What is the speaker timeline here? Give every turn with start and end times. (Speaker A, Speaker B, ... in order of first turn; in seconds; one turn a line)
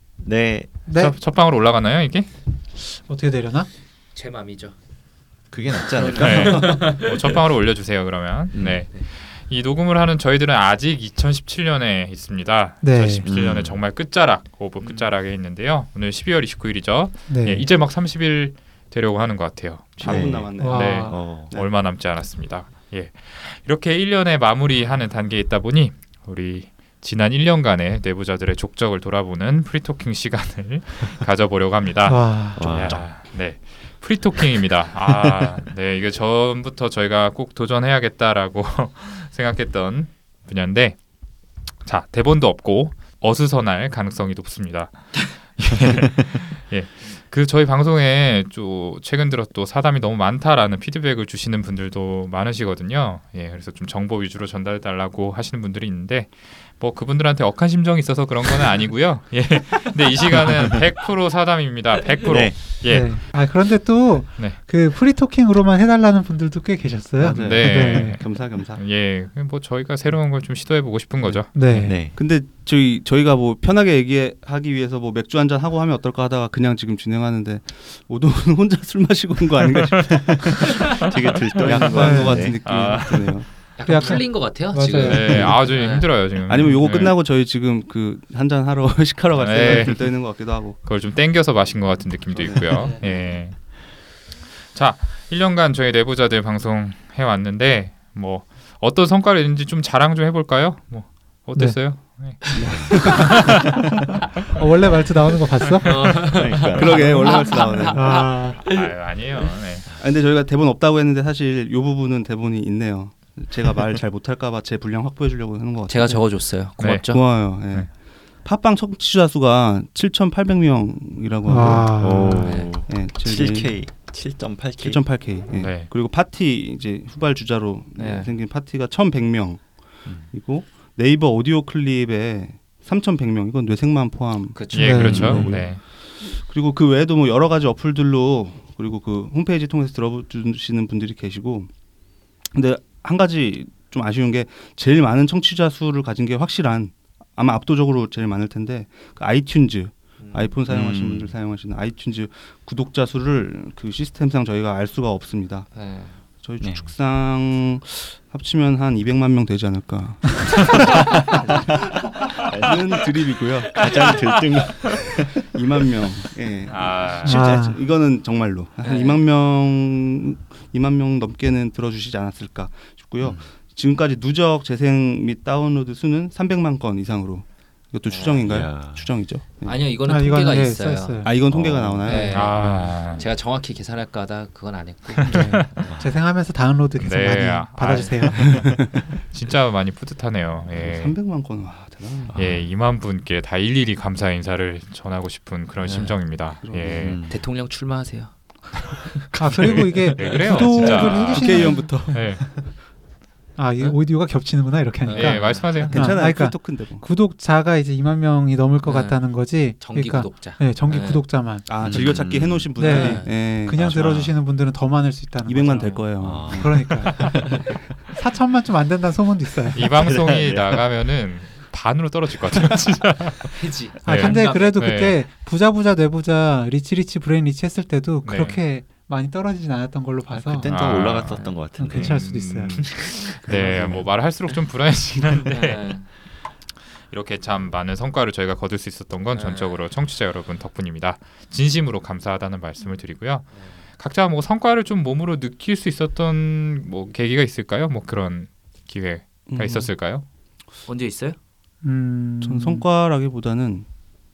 Speaker A: 0.2-0.7
Speaker B: 0.9-1.2
Speaker C: 0.9-2.3
Speaker B: 2.8-3.7
Speaker D: 4.1-4.8
Speaker A: 5.5-6.7
Speaker D: 5.9-7.3
Speaker C: 6.1-41.0
Speaker A: 8.5-8.8
Speaker B: 12.8-13.3
Speaker A: 13.2-13.8
Speaker D: 14.8-15.1
Speaker B: 17.3-17.7
Speaker E: 20.0-21.7
Speaker A: 20.0-21.5
Speaker B: 20.6-21.1
Speaker B: 32.0-32.7
Speaker A: 32.6-33.2
Speaker C: 41.8-63.2
Speaker A: 62.2-62.6
Speaker B: 62.9-68.2
Speaker C: 67.2-72.0
Speaker E: 67.2-68.8
Speaker B: 71.5-72.0
Speaker A: 71.6-72.2
Speaker E: 72.0-80.8
Speaker A: 80.0-82.6
Speaker C: 80.6-80.9
Speaker C: 81.5-83.5
Speaker E: 81.5-83.5
Speaker B: 82.0-82.4
Speaker D: 83.8-86.1
Speaker B: 83.8-85.6
Speaker C: 85.0-87.2
Speaker E: 86.5-90.8
Speaker C: 89.3-93.9
Speaker E: 92.3-92.9
Speaker D: 92.6-93.3
Speaker C: 94.6-103.7
Speaker B: 101.5-101.9
Speaker E: 102.5-103.5
Speaker D: 103.1-103.4
Speaker B: 104.5-105.9
Speaker D: 105.8-108.9
Speaker A: 106.0-107.2
Speaker E: 106.7-108.1
Speaker B: 107.9-108.6
Speaker C: 108.1-109.9
Speaker E: 110.0-121.9
Speaker D: 115.9-117.2
Speaker C: 116.8-117.9
Speaker B: 121.5-122.5
Speaker A: 121.9-125.1
Speaker D: 122.4-122.7
Speaker E: 122.6-123.9
Speaker E: 124.8-141.7
Speaker C: 125.5-125.9
Speaker D: 128.0-128.3
Speaker A: 130.1-130.3
Speaker D: 134.5-135.1
Speaker C: 134.7-135.8
Speaker B: 134.7-135.5
Speaker E: 142.5-155.8
Speaker D: 150.2-150.6
Speaker A: 150.7-151.3
Speaker D: 155.7-156.2
Speaker E: 156.4-160.7
Speaker A: 156.6-156.9
Speaker D: 161.4-161.7
Speaker A: 162.5-165.6
Speaker E: 162.5-163.9
Speaker E: 165.5-180.0
Speaker C: 166.7-167.5
Speaker B: 167.2-167.8
Speaker D: 168.8-169.2
Speaker A: 173.2-173.5
Speaker D: 178.1-178.5
Speaker A: 178.4-179.1
Speaker D: 179.6-181.2
Speaker B: 180.1-181.3
Speaker E: 181.2-182.6
Speaker A: 181.4-182.2
Speaker D: 182.0-186.0
Speaker C: 182.3-183.3
Speaker B: 182.5-182.9
Speaker C: 185.1-185.7
Speaker B: 185.2-188.5
Speaker A: 185.8-186.2
Speaker C: 187.0-191.2
Speaker D: 187.9-188.2
Speaker E: 188.3-189.0
Speaker E: 190.7-192.3
Speaker A: 192.3-192.7
Speaker C: 192.3-197.2
Speaker D: 195.8-196.2
Speaker E: 196.6-197.2
Speaker A: 197.0-197.4
Speaker D: 197.3-199.2
Speaker C: 199.3-202.4
Speaker B: 199.4-202.7
Speaker E: 200.7-202.2
Speaker B: 203.6-211.7
Speaker D: 205.1-206.0
Speaker C: 205.1-206.2
Speaker E: 205.7-207.1
Speaker D: 208.8-211.3
Speaker E: 211.7-214.2
Speaker A: 211.8-212.7
Speaker B: 212.7-217.2
Speaker D: 212.8-213.3
Speaker A: 213.9-214.3
Speaker E: 215.5-218.1
Speaker D: 215.7-216.0
Speaker A: 216.2-217.6
Speaker B: 218.1-220.0
Speaker C: 219.7-225.2
Speaker A: 219.8-220.8
Speaker D: 223.5-224.8
Speaker B: 224.0-230.7
Speaker C: 228.2-228.6
Speaker A: 230.3-232.2
Speaker C: 230.6-231.4
Speaker D: 231.3-231.6
Speaker B: 231.8-232.9
Speaker C: 231.9-236.2
Speaker E: 233.4-234.1
Speaker D: 235.4-236.1
Speaker C: 236.9-250.2
Speaker D: 239.3-239.8
Speaker D: 243.5-243.8
Speaker E: 249.5-249.9
Speaker D: 250.9-251.4
Speaker B: 251.8-252.9
Speaker E: 252.4-253.9